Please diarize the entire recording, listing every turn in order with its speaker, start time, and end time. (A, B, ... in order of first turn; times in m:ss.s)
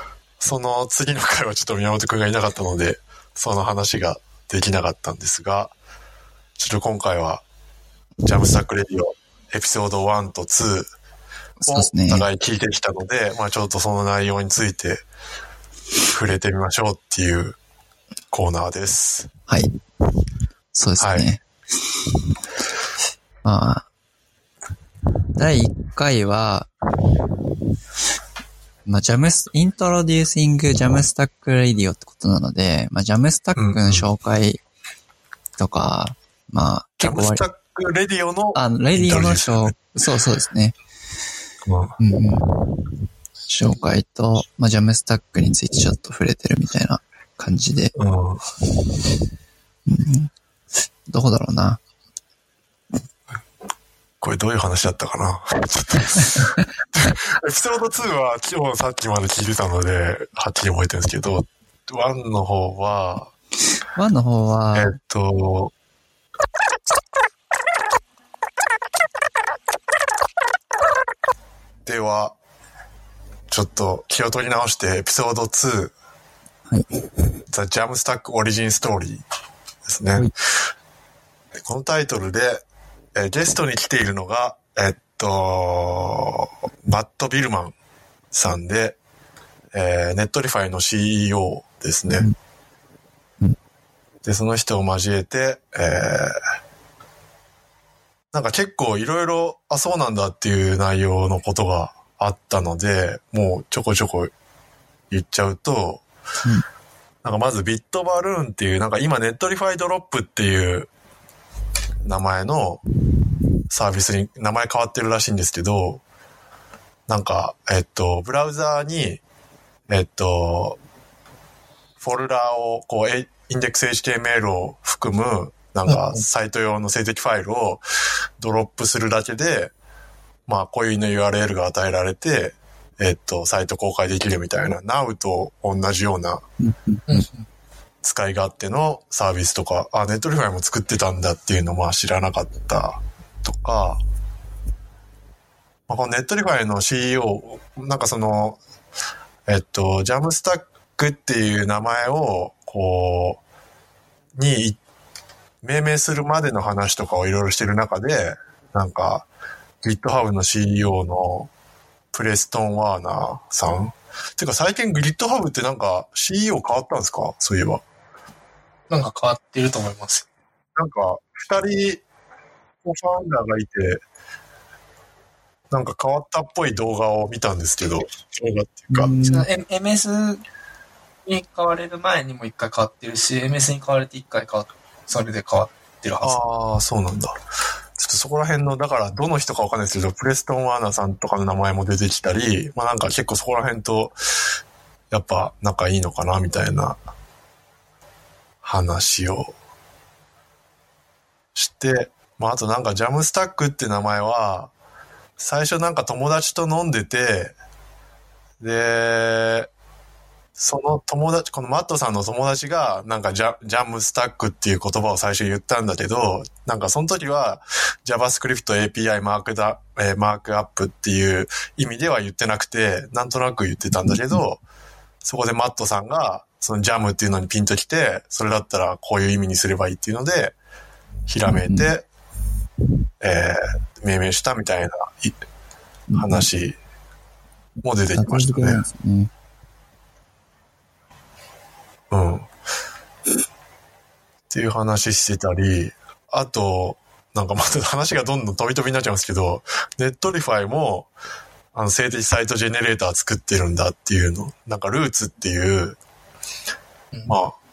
0:00.4-0:05.7 A
0:06.6-0:07.4 A
0:08.2-0:10.9 A
0:11.6-0:12.2 B
0:11.7-0:15.0 A
0:16.1-0:17.6 A
0:18.3-0:19.3 A
0:20.7-0:21.4 B
0:21.0-0:21.3 A
0:23.4-0:23.9 B
0:25.4-0:26.7 B
0:28.9-0:34.6 B
0:33.6-0:34.1 A
0:35.6-0:37.5 B
0:37.0-0:39.8 A
0:38.6-0:40.8 B
0:41.6-0:42.0 A
0:42.0-0:42.5 B
0:43.5-0:48.0 B
0:48.0-0:48.4 A
0:49.9-0:50.3 B
0:51.1-0:51.8 B
0:54.2-1:03.3 A
1:04.0-1:05.0 B
1:04.8-1:05.7 A
1:11.8-1:12.4 A
1:13.5-1:15.9 A
1:17.5-1:19.2 A
1:19.9-1:20.3 A
1:21.6-1:27.8 A
1:28.3-1:29.0 A
1:29.7-1:32.3 A
1:34.2-1:36.4 A
1:38.3-1:44.3 A
1:45.1-1:46.0 A
1:47.2-1:50.9 A
1:52.0-1:52.8 A
1:53.7-1:56.0 A
1:57.1-1:59.2 A
1:59.9-2:00.8 A
2:02.0-2:07.8 A
2:05.9-2:06.2 C
2:08.4-2:09.7 A
2:10.5-2:16.4 A
2:16.6-2:17.3 B
2:17.1-2:17.5 C
2:18.0-2:24.0 A
2:25.9-2:28.6 A
2:29.5-2:33.4 A
2:34.4-2:34.8 A
2:35.6-2:39.3 A
2:39.8-2:41.5 A
2:42.1-2:47.8 A
2:48.9-2:50.3 C
2:50.8-2:52.0 A
2:52.8-2:54.0 A
2:55.7-2:59.1 A
2:58.9-2:59.5 B
2:59.2-3:00.4 C
3:01.3-3:06.4 C
3:06.2-3:07.4 A
3:08.0-3:14.2 A
3:15.1-3:17.0 A
3:18.6-3:19.5 A
3:21.6-3:24.7 A
3:25.4-3:27.6 A
3:28.6-3:29.7 A
3:30.6-3:44.6 A
3:44.0-3:44.4 B
3:45.2-3:50.6 A
3:51.3-3:52.1 A
3:51.5-3:51.9 B
3:53.2-3:55.4 A
3:56.1-3:56.5 B
3:56.2-3:56.8 A
3:57.8-3:58.8 A
3:58.2-3:59.3 B
4:02.1-4:02.5 A
4:04.5-4:11.1 A
4:11.7-4:16.0 A
4:17.3-4:17.6 A